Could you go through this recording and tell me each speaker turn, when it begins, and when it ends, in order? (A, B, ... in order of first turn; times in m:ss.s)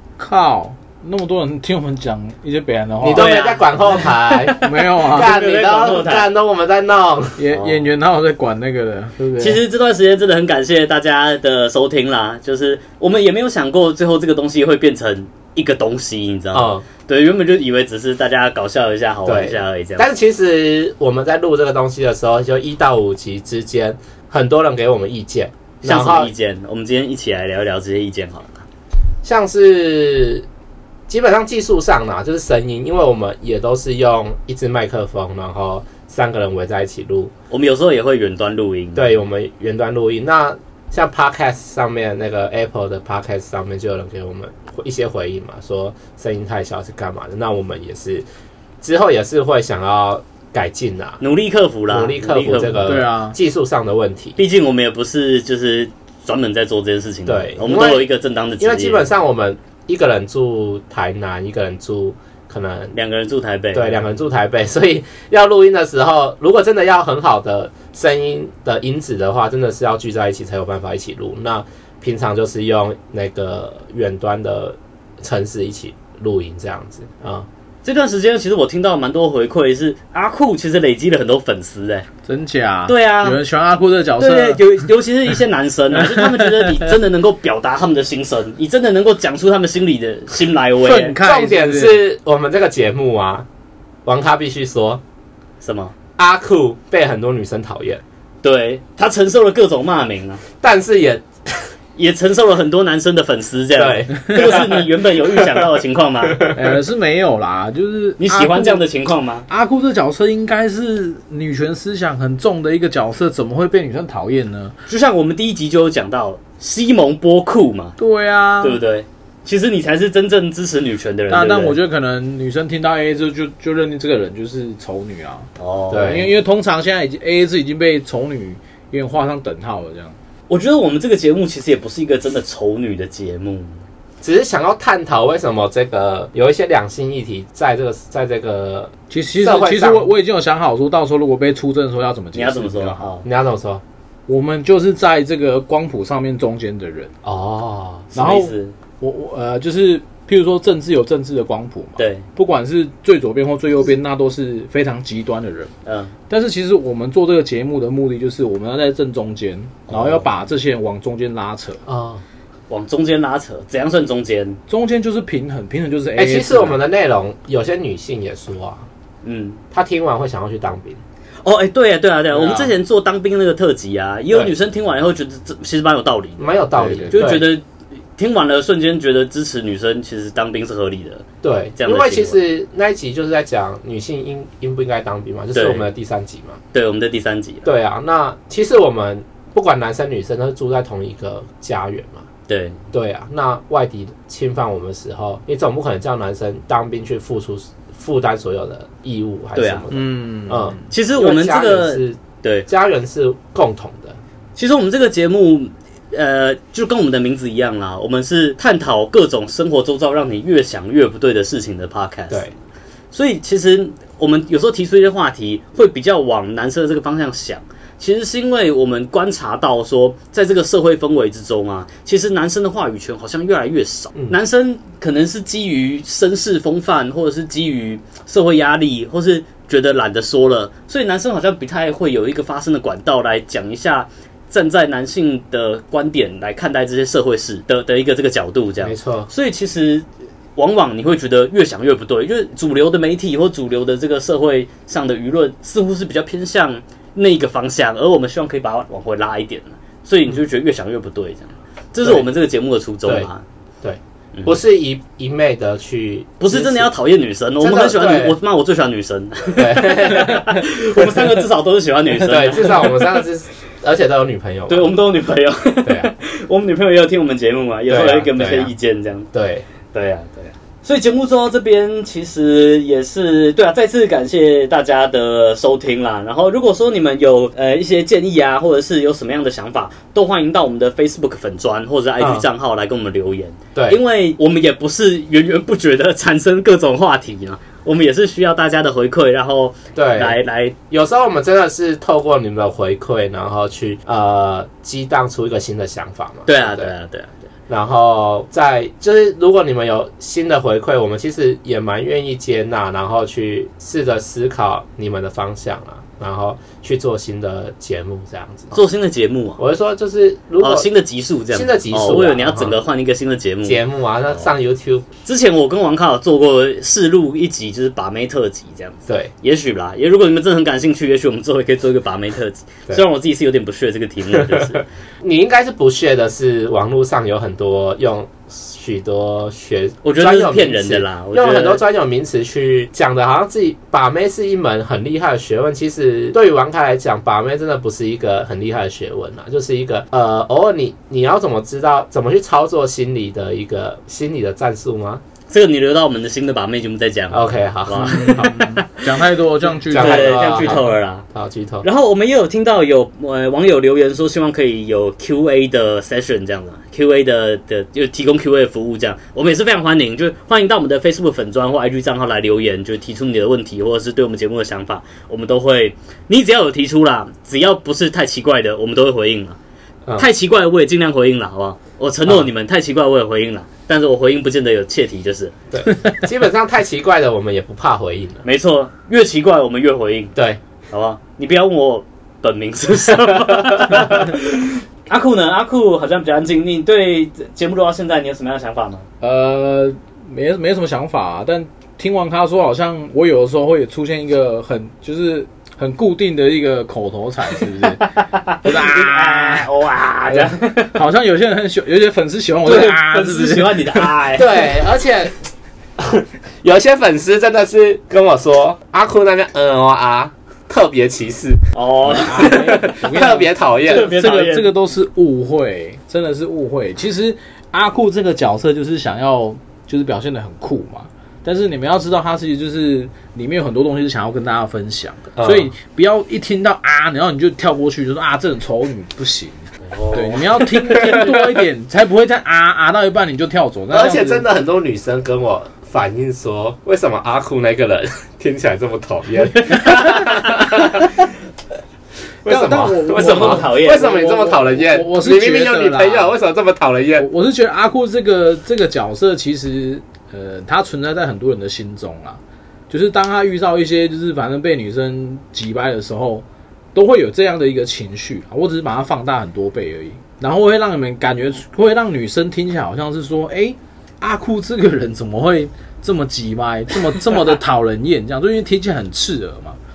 0:00.2-0:03.3 A
0:03.0-0:07.4 B
0:03.1-0:06.3 C
0:04.6-0:05.4 A
0:07.4-0:09.6 A
0:07.5-0:07.8 C
0:09.4-0:20.1 C
0:16.5-0:16.8 B
0:19.2-0:26.3 B
0:25.8-0:28.6 C
0:29.2-0:30.4 B
0:31.1-0:37.3 B
0:37.5-0:39.2 C
0:39.0-0:48.2 B
0:48.8-0:51.2 B
0:51.2-0:52.9 C
0:51.9-0:54.4 B
0:52.8-0:53.4 A
0:54.4-0:59.1 C
0:57.2-1:03.0 B
1:02.9-1:04.0 C
1:03.7-1:17.5 B
1:17.8-1:22.1 C
1:22.2-1:24.8 A
1:22.9-1:23.4 C
1:24.2-1:31.2 C
1:26.0-1:26.8 A
1:30.8-1:32.0 A
1:31.2-1:33.5 B
1:34.1-1:35.0 B
1:35.6-1:35.9 C
1:36.2-1:38.0 B
1:38.4-1:40.4 C
1:40.6-1:41.7 B
1:42.0-1:46.4 C
1:43.8-1:45.4 B
1:46.5-1:48.8 A
1:48.2-1:49.5 C
1:49.5-1:54.7 A
1:54.9-1:58.0 C
1:58.0-1:58.8 A
1:58.6-2:01.8 C
2:01.3-2:05.5 A
2:05.6-2:06.3 C
2:05.9-2:06.3 B
2:06.0-2:10.2 A
2:10.5-2:13.8 C
2:14.2-2:20.1 B
2:19.1-2:23.0 A
2:22.3-2:23.2 C
2:23.2-2:23.8 B
2:24.3-2:27.1 A
2:27.2-2:28.1 B
2:28.1-2:28.8 C
2:28.2-2:35.7 A
2:32.0-2:32.2 C
2:35.8-2:36.1 C
2:36.3-2:41.8 A
2:39.9-2:40.2 C
2:41.8-2:42.2 B
2:42.7-2:44.6 C
2:44.7-2:46.8 A
2:46.2-2:48.8 B
2:49.2-2:49.6 C
2:49.7-2:51.0 B
2:51.4-2:57.6 C
2:52.3-2:52.7 B
2:56.4-2:57.5 B
2:56.8-2:57.4 A
2:58.2-3:01.2 C
3:01.4-3:06.6 B
3:01.8-3:02.4 C
3:05.5-3:05.9 C
3:06.7-3:07.7 C
3:07.6-3:12.3 B
3:12.5-3:12.8 C
3:12.9-3:24.2 B
3:19.6-3:19.9 C
3:19.9-3:20.9 A
3:20.9-3:22.7 C
3:24.6-3:32.4 C
3:33.1-4:13.4 C
3:58.8-3:59.3 B
4:13.8-4:16.9 B
4:16.4-4:22.9 C
4:17.6-4:18.4 B
4:19.6-4:20.5 B
4:22.2-4:25.0 B
4:24.7-4:29.3 C
4:27.9-4:28.7 B
4:29.3-4:29.6 B
4:29.9-4:50.8 C
4:42.2-4:42.5 B
4:49.9-4:50.4 B
4:50.9-4:56.9 B
4:56.5-4:57.4 C
4:57.7-5:08.8 B
5:08.7-5:09.6 C
5:09.6-5:10.9 B
5:10.6-5:13.8 C
5:11.5-5:12.8 B
5:13.6-5:15.1 B
5:15.2-5:24.8 C
5:19.1-5:19.3 B
5:24.3-5:24.6 B
5:25.2-5:45.2 B
5:30.0-5:31.8 C
5:45.5-5:49.1 C
5:47.3-5:48.6 B
5:47.9-5:50.8 A
5:49.9-5:51.8 B
5:49.9-5:51.2 C
5:51.8-6:09.6 C
6:10.2-6:15.5 C
6:15.7-6:18.4 B
6:18.4-6:20.3 C
6:20.9-6:29.1 C
6:23.5-6:24.0 B
6:29.2-6:38.1 A
6:37.8-6:41.0 C
6:38.6-6:39.7 A
6:40.2-6:43.8 A
6:42.6-6:44.6 C
6:44.0-6:45.3 B
6:46.0-6:54.2 B
6:51.7-6:53.0 C
6:52.1-7:14.4 A
6:53.9-6:54.7 C
7:05.4-7:05.7 B
7:09.9-7:10.8 C
7:10.8-7:11.6 B
7:13.9-7:21.2 B
7:22.4-7:26.3 A
7:22.4-7:27.3 B
7:23.1-7:24.1 C
7:27.2-7:49.8 A